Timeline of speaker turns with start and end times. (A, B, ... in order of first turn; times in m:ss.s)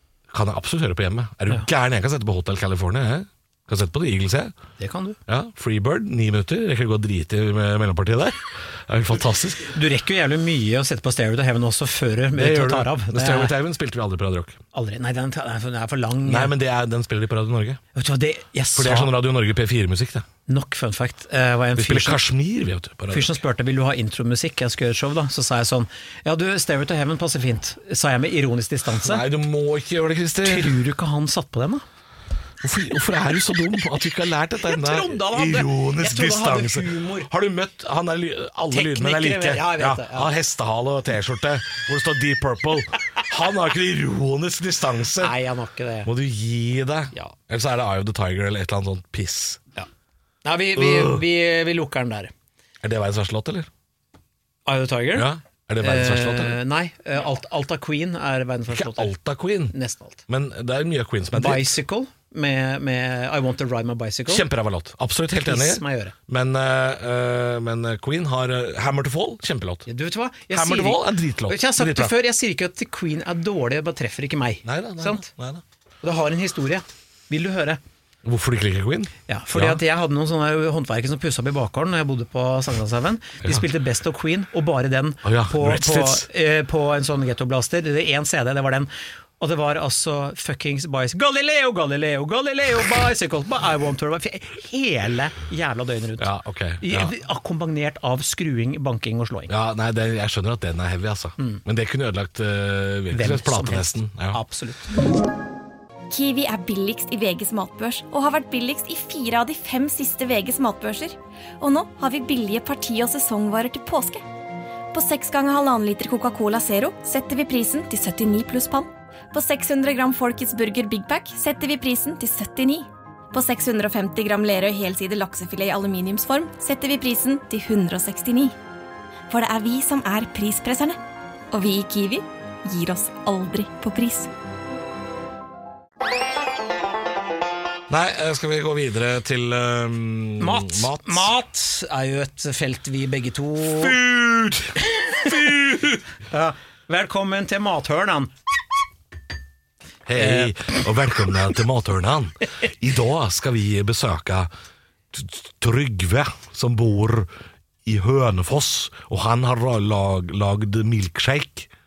0:00.3-0:04.5 A
0:04.8-0:05.2 B
0:05.3-0:09.7 A
0:09.7-0:13.5 B
0:12.3-0:14.6 A
0:14.7-0:16.5 B
0:16.2-0:17.8 A
0:17.9-0:19.1 B
0:18.7-0:20.2 A
0:20.5-0:22.2 B
0:21.8-0:23.3 A
0:23.1-0:29.2 B
0:29.0-0:30.8 A
0:30.4-0:31.8 B
0:32.6-0:45.3 A
0:34.6-0:37.3 B
0:38.7-0:40.3 B
0:45.2-0:46.1 B
0:46.0-0:49.6 A
0:50.4-0:52.3 B
0:50.8-0:51.2 A
0:52.8-0:53.7 A
0:54.6-0:55.3 B
0:55.1-0:56.6 A
0:55.8-0:59.1 B
0:58.7-0:59.7 A
0:59.7-1:00.2 B
1:00.3-1:01.7 A
1:01.3-1:04.5 B
1:04.3-1:09.8 A
1:05.4-1:06.1 B
1:09.8-1:15.3 B
1:10.5-1:12.2 A
1:14.6-1:15.6 A
1:16.0-1:17.8 B
1:18.2-1:19.8 A
1:19.3-1:36.3 B
1:25.2-1:26.3 A
1:36.2-1:37.1 A
1:36.8-1:39.5 B
1:39.5-1:44.4 A
1:43.1-1:44.9 B
1:46.1-1:54.2 C
1:54.9-2:08.5 C
2:09.3-2:11.0 C
2:11.5-2:14.3 C
2:17.9-2:21.3 A
2:20.4-2:24.0 B
2:23.6-2:26.0 A
2:26.3-2:28.3 B
2:30.0-2:34.5 A
2:30.2-2:30.7 B
2:35.1-2:37.3 A
2:37.8-2:41.7 A